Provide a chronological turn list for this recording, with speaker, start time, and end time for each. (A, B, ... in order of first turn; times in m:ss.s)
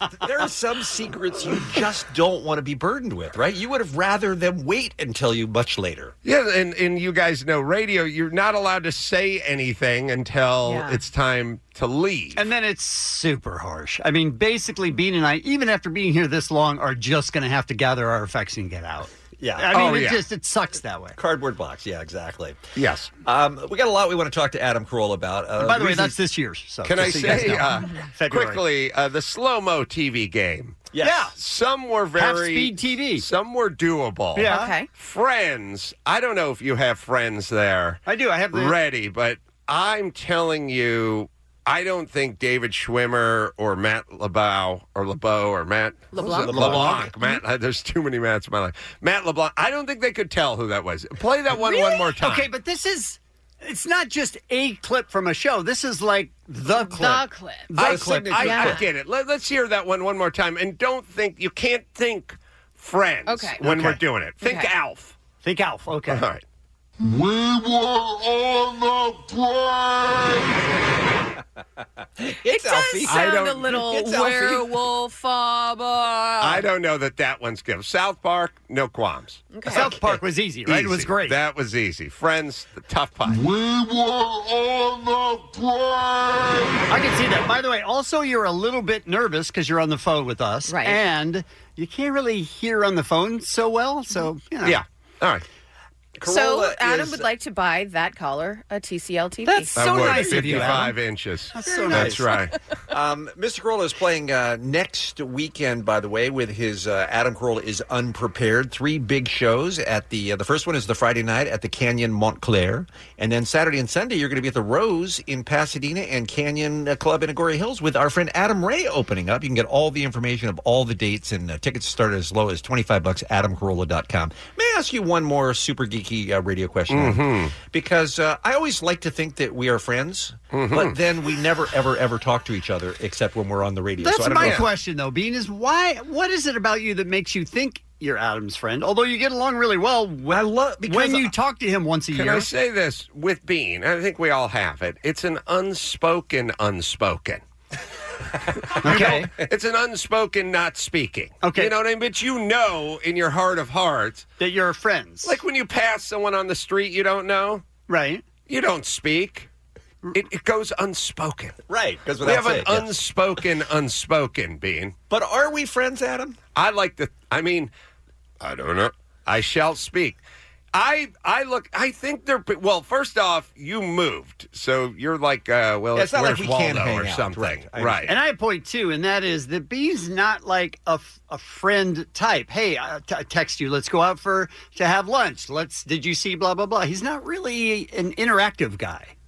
0:00.2-0:06.2 A
0:06.2-0:12.4 B
0:10.6-0:11.0 C
0:12.4-0:21.2 D
0:19.4-0:19.8 A
0:19.7-0:20.2 B
0:21.2-0:22.7 A
0:22.8-0:23.1 B
0:23.2-0:26.2 A
0:25.6-0:28.6 D
0:26.8-0:52.5 B
0:30.9-0:31.3 A
0:31.0-0:31.3 D
0:32.1-0:33.3 D
0:34.4-0:34.7 D
0:34.4-0:34.9 C
0:38.1-0:38.8 D
0:46.1-0:46.6 C
0:46.4-0:47.2 A
0:46.5-0:47.0 D
0:51.6-0:58.8 D
0:56.8-0:57.7 C
0:57.7-1:05.1 B
0:57.8-0:58.7 A
0:58.4-0:58.9 C
1:03.3-1:03.6 C
1:04.4-1:04.7 C
1:05.4-1:06.2 D
1:06.1-1:06.4 B
1:07.0-1:10.8 E
1:12.2-1:14.7 A
1:12.4-1:16.6 C
1:13.1-1:13.7 B
1:16.4-1:19.9 B
1:19.5-1:19.9 C
1:19.7-1:21.4 D
1:20.6-1:23.4 B
1:23.2-1:27.0 E
1:26.9-1:34.8 D
1:30.7-1:31.0 C
1:34.6-1:35.4 B
1:36.2-1:37.3 A
1:36.2-1:40.4 C
1:39.4-1:41.0 D
1:39.7-1:42.6 B
1:41.5-1:42.3 D
1:41.9-1:42.2 A
1:42.9-2:14.6 A
2:06.9-2:07.6 B
2:10.5-2:11.0 B
2:14.0-2:22.5 D
2:14.4-2:14.7 B
2:20.3-2:21.3 A
2:22.1-2:27.4 B
2:28.6-2:34.3 B
2:28.8-2:29.3 D
2:31.4-2:31.7 D
2:34.4-2:35.4 D
2:35.2-2:37.6 B
2:37.9-2:38.2 D
2:38.5-2:39.5 B
2:40.1-2:41.6 B
2:41.7-2:43.0 A
2:42.2-2:45.0 B
2:45.1-2:46.4 A
2:46.5-2:47.7 B
2:48.4-2:50.2 B
2:50.7-2:58.1 B
2:55.9-2:58.0 A
2:58.0-3:09.1 D